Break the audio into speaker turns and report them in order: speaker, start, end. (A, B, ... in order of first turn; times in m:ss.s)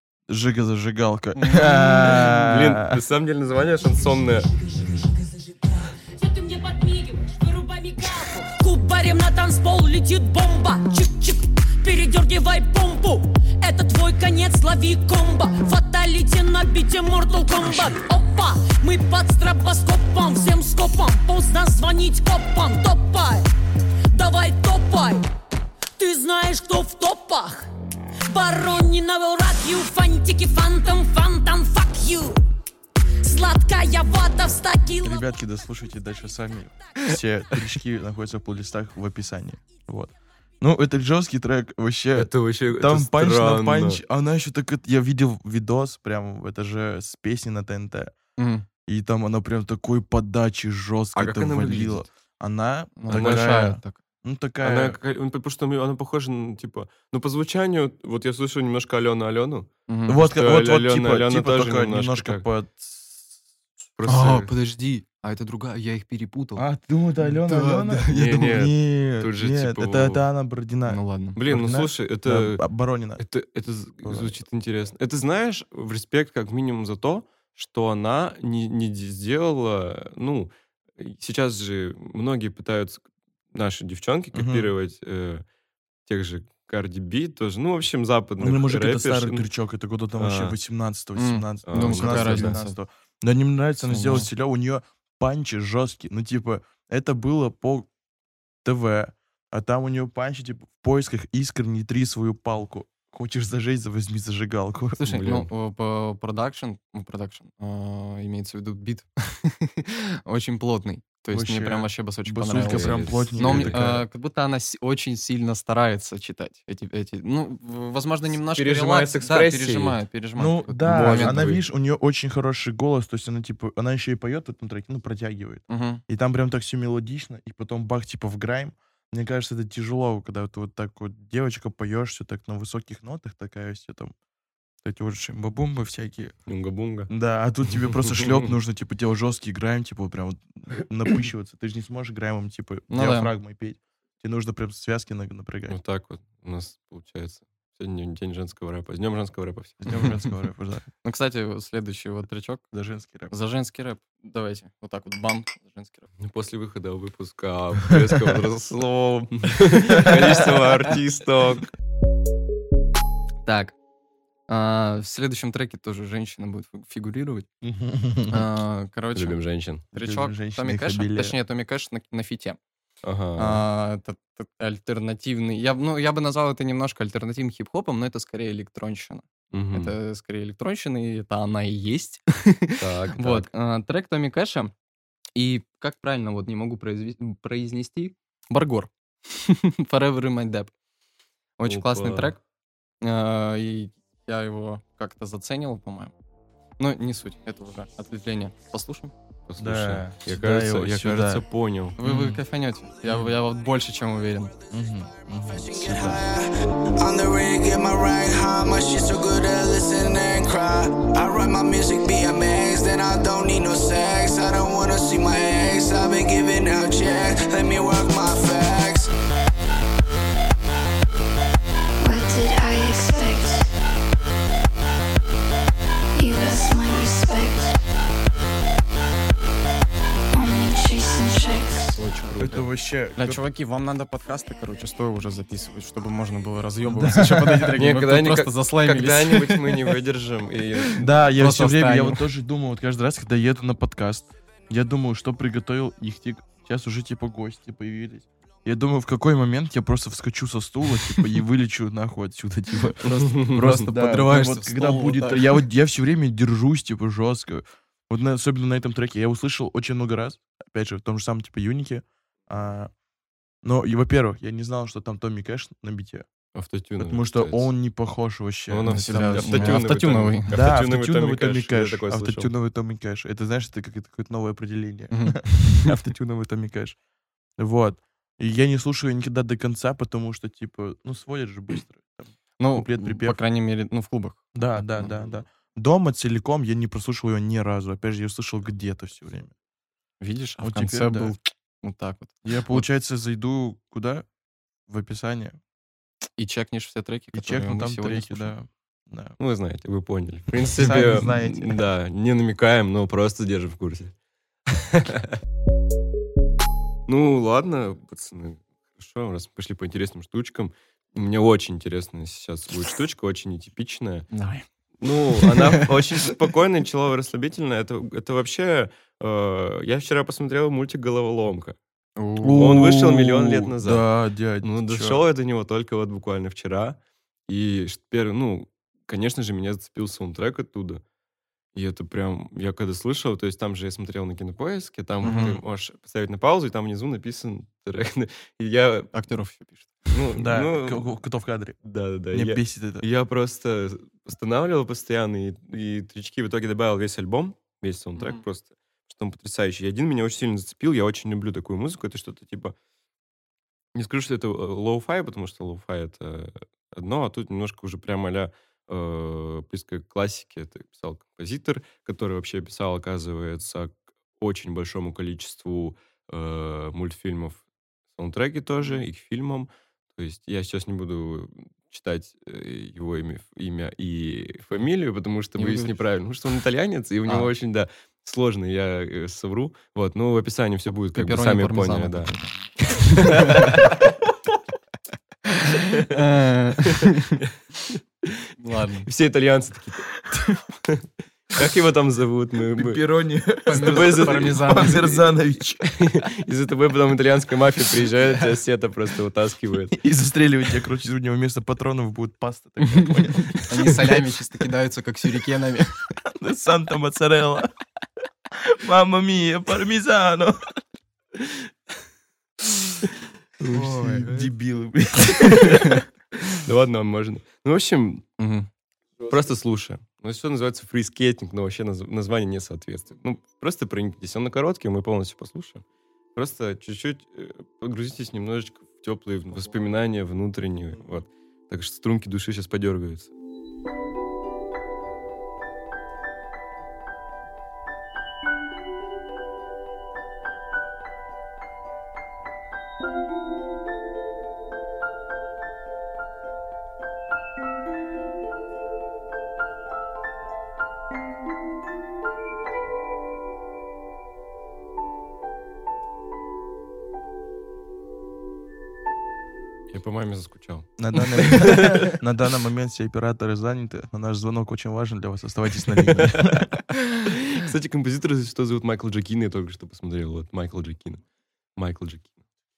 0:00.3-0:03.0 A
0:01.4-0:02.3 B
0:02.1-0:04.5 C
0:04.8-0:23.4 D
0:24.1-0:25.3 D
0:26.0-0:27.7 D
0:28.3-0:32.4 D
0:33.2-0:35.3 D
0:35.0-0:48.1 A
0:42.2-0:44.0 C
0:48.4-0:48.7 B
0:48.9-0:55.0 A
0:51.1-0:52.1 C
0:53.0-0:54.0 B
0:53.1-0:53.5 C
0:54.6-0:59.7 C
0:59.9-1:00.2 B
1:00.1-1:03.3 A
1:00.2-1:02.5 C
1:04.0-1:04.5 C
1:04.1-1:06.6 B
1:06.6-1:13.2 A
1:07.2-1:08.1 B
1:08.1-1:10.2 C
1:10.9-1:11.4 B
1:11.4-1:12.6 C
1:13.2-1:25.4 C
1:14.0-1:14.4 A
1:24.3-1:24.7 A
1:26.1-1:29.5 C
1:28.4-1:37.9 A
1:30.2-1:30.6 C
1:31.2-1:32.8 B
1:31.7-1:32.6 C
1:33.8-1:34.3 B
1:38.6-1:45.0 A
1:45.0-2:01.4 B
1:45.0-1:45.5 C
1:51.3-1:54.0 A
1:52.7-1:54.0 C
1:58.5-2:00.0 C
2:00.4-2:14.1 A
2:00.9-2:01.6 C
2:05.7-2:06.0 B
2:14.8-2:16.4 A
2:16.5-2:17.1 C
2:17.1-2:25.8 A
2:18.0-2:18.5 C
2:22.9-2:23.3 B
2:25.7-2:30.1 C
2:29.8-2:30.9 A
2:31.0-2:32.6 B
2:32.7-2:33.3 A
2:33.3-2:36.1 B
2:36.2-2:41.7 C
2:40.0-2:40.3 A
2:43.4-2:43.8 B
2:44.5-2:47.5 B
2:47.6-2:48.4 A
2:48.3-2:52.6 B
2:49.1-2:49.8 C
2:49.9-2:51.4 A
2:53.0-2:53.6 C
2:53.4-3:04.7 B
2:59.5-2:59.9 C
3:02.8-3:03.5 C
3:05.4-3:10.7 B
3:11.6-3:12.4 B
3:11.7-3:12.4 C
3:13.0-3:16.1 B
3:16.8-3:19.1 B
3:19.5-3:22.0 C
3:19.6-3:21.4 A
3:22.0-3:24.5 B
3:22.0-3:22.4 A
3:23.1-3:23.3 A
3:24.7-3:26.2 A
3:25.6-3:39.1 E
3:42.0-3:43.7 F
3:46.2-3:47.8 F
3:50.3-3:52.0 F
3:52.0-3:52.6 B
3:52.2-3:52.7 C
3:52.4-3:53.4 A
3:53.2-3:59.8 B
3:56.8-3:57.8 A
3:57.8-4:01.1 C
4:00.9-4:22.9 A
4:01.4-4:02.2 B
4:13.1-4:13.8 C
4:13.3-4:15.6 B
4:23.6-4:26.3 A
4:26.6-4:27.7 C
4:27.0-4:29.8 A
4:28.7-4:32.5 C
4:28.9-4:30.5 B
4:30.5-4:37.0 A
4:35.1-4:35.9 B
4:37.6-4:43.4 A
4:42.6-4:45.1 B
4:44.5-4:49.5 A
4:50.2-4:52.9 B
4:50.6-4:51.4 A
4:52.4-4:54.3 A
4:54.9-4:55.6 A
4:56.4-4:58.5 B
4:57.3-4:59.4 A
4:59.4-5:04.1 C
5:00.7-5:01.8 A
5:04.7-5:05.4 C
5:07.1-5:14.3 C
5:14.3-5:14.6 B
5:15.0-5:21.8 C
5:15.4-5:15.9 B
5:22.2-5:22.8 B
5:22.4-5:25.2 A
5:22.5-5:24.1 C
5:24.6-5:31.0 C
5:31.8-5:39.1 C
5:35.2-5:35.6 B
5:35.2-5:35.6 A
5:39.1-5:40.0 B
5:40.1-5:41.1 C
5:40.4-5:41.8 A
5:41.8-5:52.8 C
5:42.3-5:43.0 A
5:48.2-5:48.4 B
5:54.0-6:07.6 C
6:08.2-6:22.3 C
6:15.6-6:16.0 B
6:17.3-6:17.5 B
6:21.1-6:22.5 B
6:22.9-6:24.0 C
6:23.1-6:24.0 B
6:25.5-6:27.4 B
6:26.8-6:27.5 C
6:28.2-6:28.5 C
6:28.6-6:29.1 B
6:29.0-6:30.2 C
6:30.9-6:33.0 C
6:32.8-6:35.9 A
6:33.7-6:35.2 B
6:33.7-6:34.9 C
6:35.8-6:40.0 C
6:39.9-6:44.2 A
6:42.8-6:46.0 B
6:46.2-6:47.7 A
6:48.7-6:50.6 A
6:53.6-6:54.5 C
6:53.7-6:56.0 A
6:56.5-6:58.2 C
6:58.4-6:58.7 B
6:59.3-7:05.8 C
7:06.4-7:13.3 C
7:39.9-7:42.1 C
7:41.0-7:46.7 A
7:46.1-7:51.2 C
7:51.8-7:52.4 C